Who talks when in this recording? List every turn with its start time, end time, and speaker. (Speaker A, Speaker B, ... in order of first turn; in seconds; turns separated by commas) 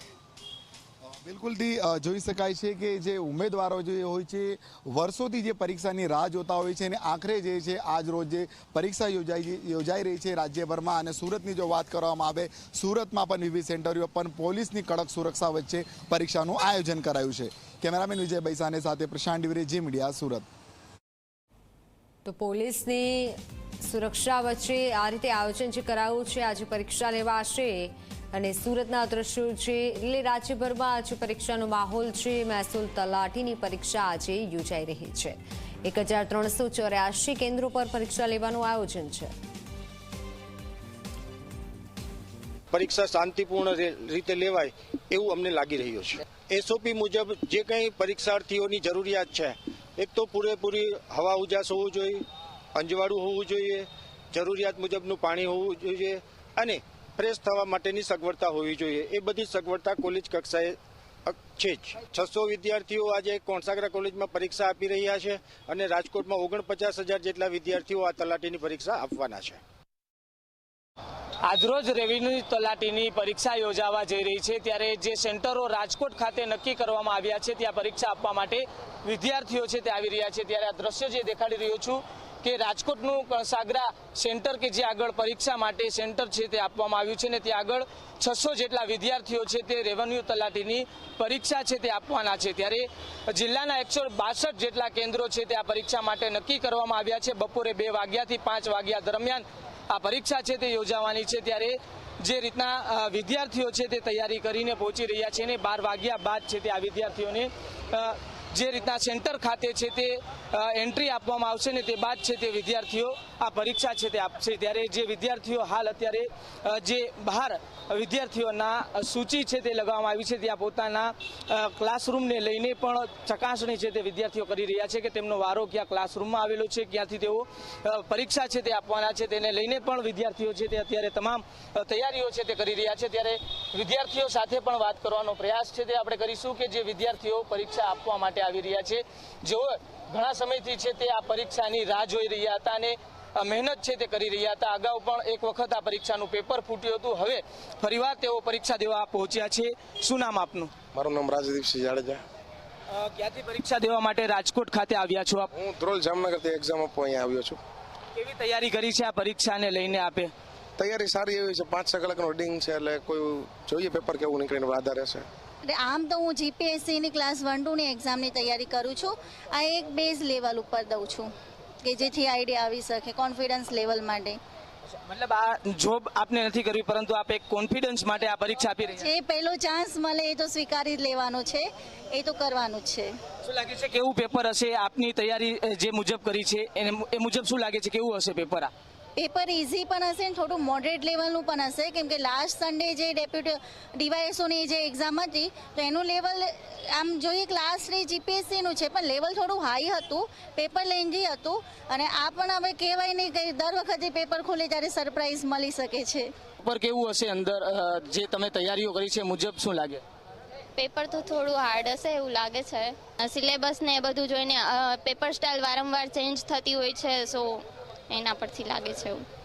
Speaker A: 1.0-20.4, Speaker B: 22.2-39.3, Speaker C: 42.7-69.6, Speaker D: 71.4-150.7, Speaker E: 150.9-152.2, Speaker D: 152.9-155.5, Speaker E: 155.5-157.6, Speaker D: 158.1-160.3, Speaker E: 160.8-165.3, Speaker F: 165.7-171.3, Speaker F: 171.9-174.3, Speaker D: 175.1-179.1, Speaker F: 179.0-183.1, Speaker D: 183.4-188.7, Speaker F: 189.2-206.3, Speaker D: 206.6-210.0, Speaker G: 210.8-219.2